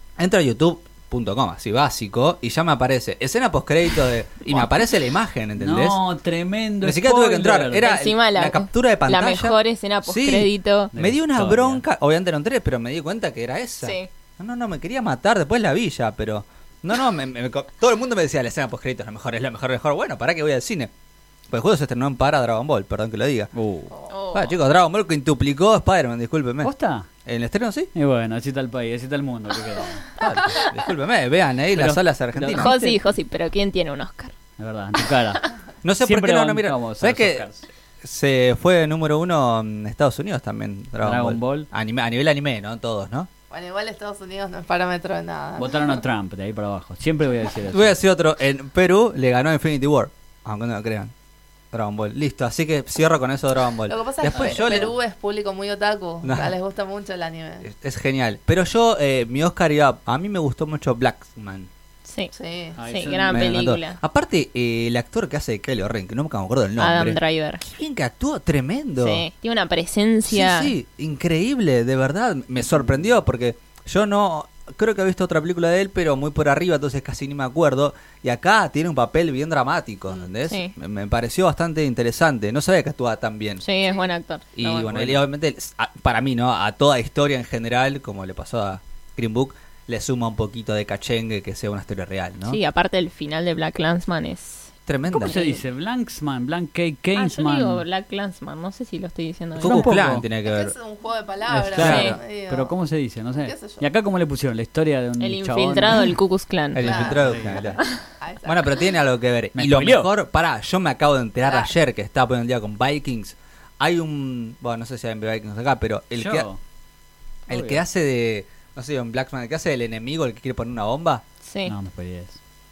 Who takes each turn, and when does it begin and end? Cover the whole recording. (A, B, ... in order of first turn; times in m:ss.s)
0:00.2-0:06.0 A
0:05.6-0:07.9 B
0:06.8-0:20.9 A
0:07.8-0:10.9 C
0:10.9-0:11.8 B
0:13.8-0:14.1 C
0:21.5-0:23.5 A
0:23.5-0:23.9 B
0:24.1-0:24.6 C
0:24.3-0:26.7 A
0:26.6-0:27.1 B
0:27.2-0:27.9 A
0:27.9-0:30.1 B
0:30.2-0:32.7 A
0:31.7-0:33.0 B
0:32.5-0:34.4 C
0:34.6-0:35.4 B
0:35.8-0:37.5 A
0:36.0-0:37.7 B
0:38.0-0:43.3 A
0:41.0-0:41.7 B
0:43.5-0:46.0 D
0:45.6-0:48.0 B
0:47.7-0:51.1 A
0:51.7-0:54.9 A
0:53.9-0:57.7 D
0:54.3-0:54.9 B
0:56.2-0:56.5 A
0:57.6-1:01.7 A
1:02.1-1:02.3 C
1:02.4-1:02.8 D
1:02.8-1:03.5 B
1:02.9-1:04.0 C
1:03.3-1:09.2 A
1:06.8-1:07.6 C
1:09.0-1:10.7 C
1:10.3-1:23.6 A
1:20.5-1:20.7 C
1:23.6-1:24.6 C
1:23.8-1:24.1 D
1:24.6-1:32.6 A
1:24.8-1:25.2 B
1:32.5-1:34.7 C
1:34.9-1:35.4 A
1:35.1-1:37.8 B
1:35.2-1:35.6 C
1:37.2-1:40.0 C
1:39.6-1:40.3 B
1:39.6-1:40.8 A
1:40.4-1:42.7 D
1:41.5-1:46.2 B
1:41.6-1:42.2 A
1:41.8-1:42.2 C
1:43.4-1:43.8 D
1:45.2-1:47.2 C
1:46.7-1:47.8 A
1:46.8-1:48.8 D
1:47.1-1:47.7 B
1:48.4-1:56.5 A
1:49.5-1:50.1 B
1:56.2-1:56.6 B
1:57.5-1:57.8 B
1:57.5-2:01.2 A
2:01.4-2:01.7 C
2:01.7-2:02.4 B